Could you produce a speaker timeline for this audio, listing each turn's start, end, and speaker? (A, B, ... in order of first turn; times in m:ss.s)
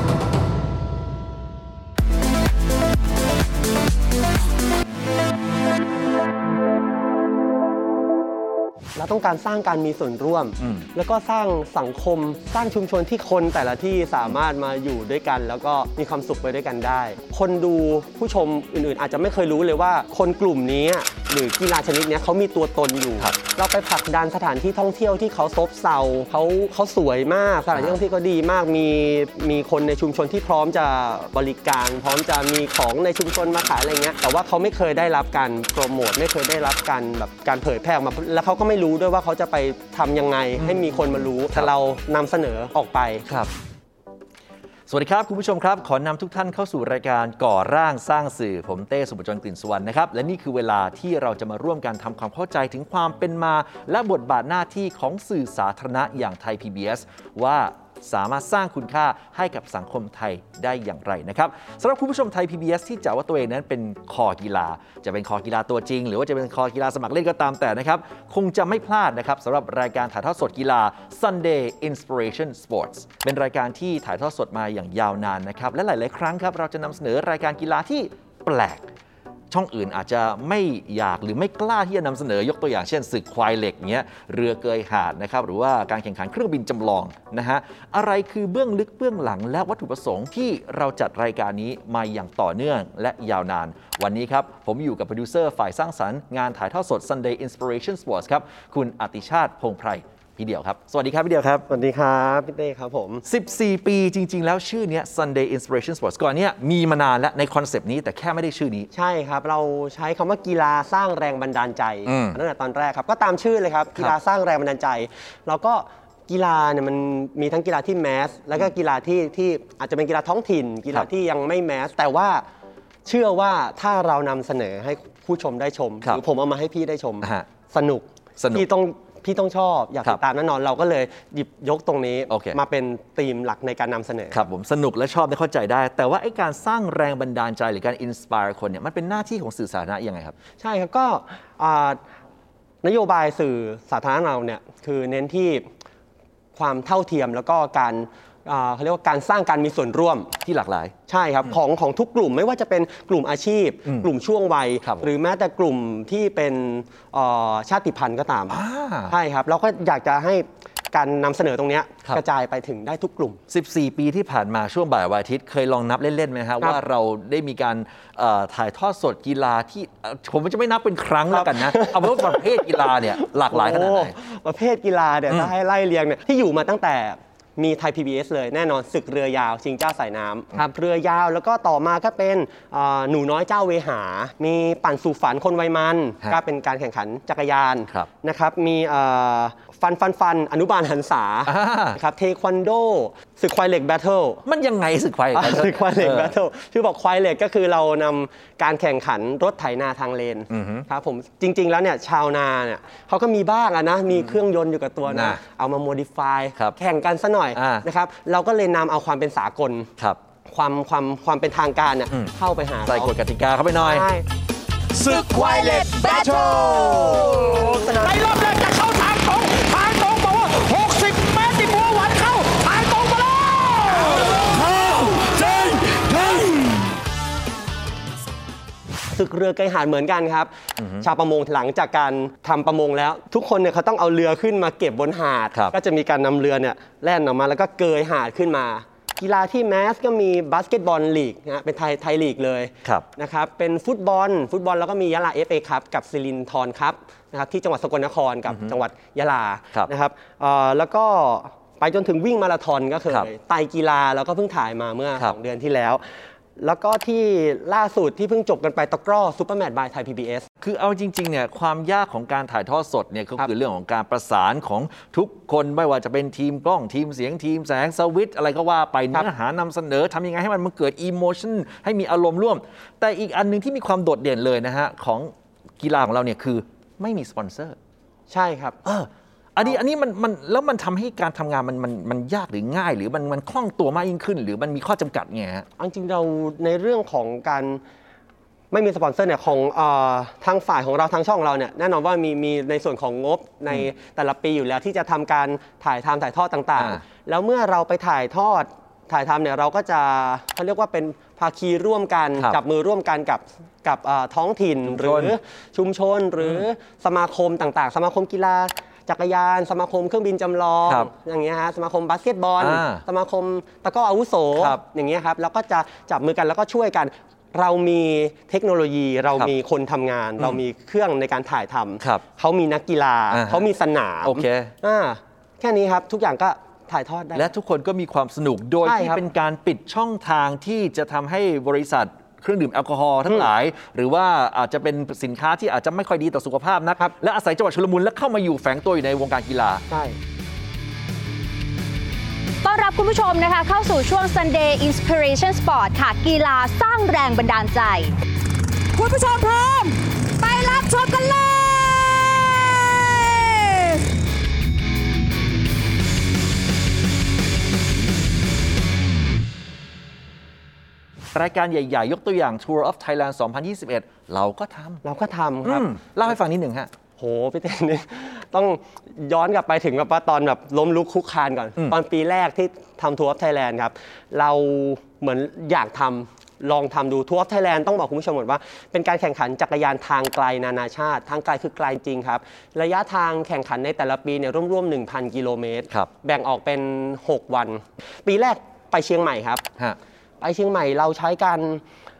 0:09.0-0:43.2 A
0:10.6-0:10.9 B
0:27.7-0:28.0 B
0:40.6-0:41.7 B
0:43.2-0:43.5 B
0:44.9-1:18.8 B
1:19.5-1:41.6 B
1:41.7-1:43.2 A
1:43.2-1:48.9 B
1:48.9-2:02.4 A
1:52.0-1:52.4 B
2:03.0-2:14.4 A
2:07.2-2:07.5 B
2:08.4-2:08.6 B
2:12.3-2:12.6 B
2:14.3-2:20.3 B
2:20.6-2:22.0 A
2:22.8-2:25.7 A
2:26.5-2:30.3 A
2:30.4-2:30.9 B
2:31.1-2:43.4 A
2:34.8-2:35.1 B
2:38.5-2:39.1 B
2:43.5-2:54.1 B
2:51.3-3:14.4 A
3:11.4-3:12.0 B
3:14.4-3:16.4 B
3:15.3-3:29.9 A
3:20.5-3:20.9 B
3:25.0-3:25.4 B
3:27.5-3:27.8 B
3:30.5-3:33.1 A
3:32.8-3:34.1 B
3:33.8-3:34.2 A
3:35.1-3:36.7 C
3:36.7-3:38.2 A
3:41.1-3:41.4 D
3:42.4-3:42.6 D
3:44.8-3:46.2 D
3:49.1-4:16.0 A
3:50.8-3:51.1 B
4:08.5-4:08.8 B
4:16.6-4:20.4 A
4:20.6-4:37.8 B
4:38.3-4:38.8 A
4:38.8-4:45.7 B
4:45.8-4:47.8 A
4:48.7-5:27.5 A
4:56.8-4:57.0 B
5:04.8-5:05.4 B
5:12.6-5:13.0 B
5:14.5-5:14.8 B
5:23.3-5:23.6 B
5:24.2-5:24.7 B
5:27.3-5:39.8 B
5:28.8-5:29.2 A
5:39.9-5:40.2 A
5:42.6-5:48.1 C
5:48.9-5:52.4 C
5:53.0-5:54.0 C
6:01.3-6:05.0 B
6:05.0-6:06.3 A
6:05.6-6:06.9 B
6:07.2-6:29.6 A
6:30.4-6:31.8 A